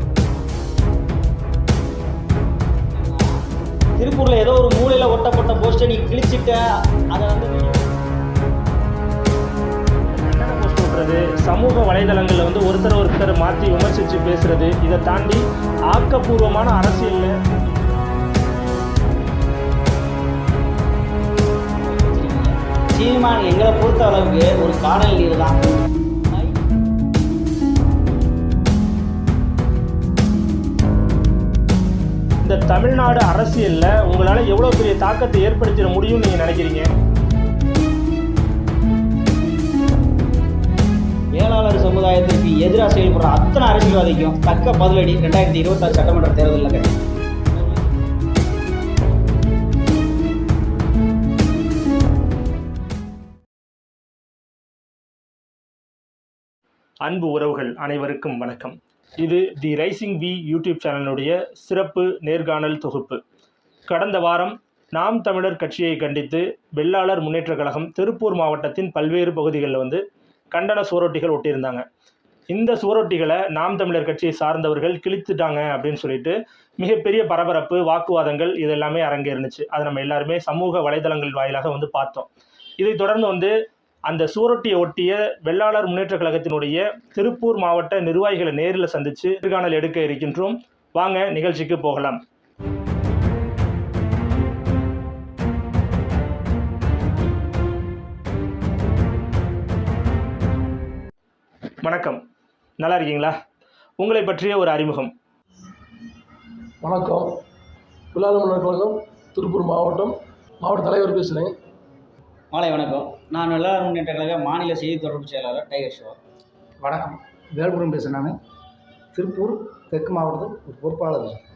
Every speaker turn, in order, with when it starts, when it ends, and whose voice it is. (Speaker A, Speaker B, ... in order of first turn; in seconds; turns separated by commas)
Speaker A: 2.9-3.3, Speaker A: 4.0-6.6, Speaker A: 7.1-7.9, Speaker B: 10.1-17.4, Speaker A: 21.8-25.6, Speaker A: 26.3-26.6, Speaker B: 32.4-36.9, Speaker A: 41.3-47.0, Speaker B: 57.0-63.2, Speaker B: 63.9-70.0, Speaker B: 70.5-71.8, Speaker B: 72.5-83.5, Speaker B: 84.1-92.2, Speaker B: 101.8-102.2, Speaker B: 102.8-103.3, Speaker B: 104.0-105.1, Speaker C: 106.8-107.4, Speaker C: 108.1-111.5, Speaker A: 112.5-116.2, Speaker D: 116.8-118.3, Speaker D: 119.1-121.4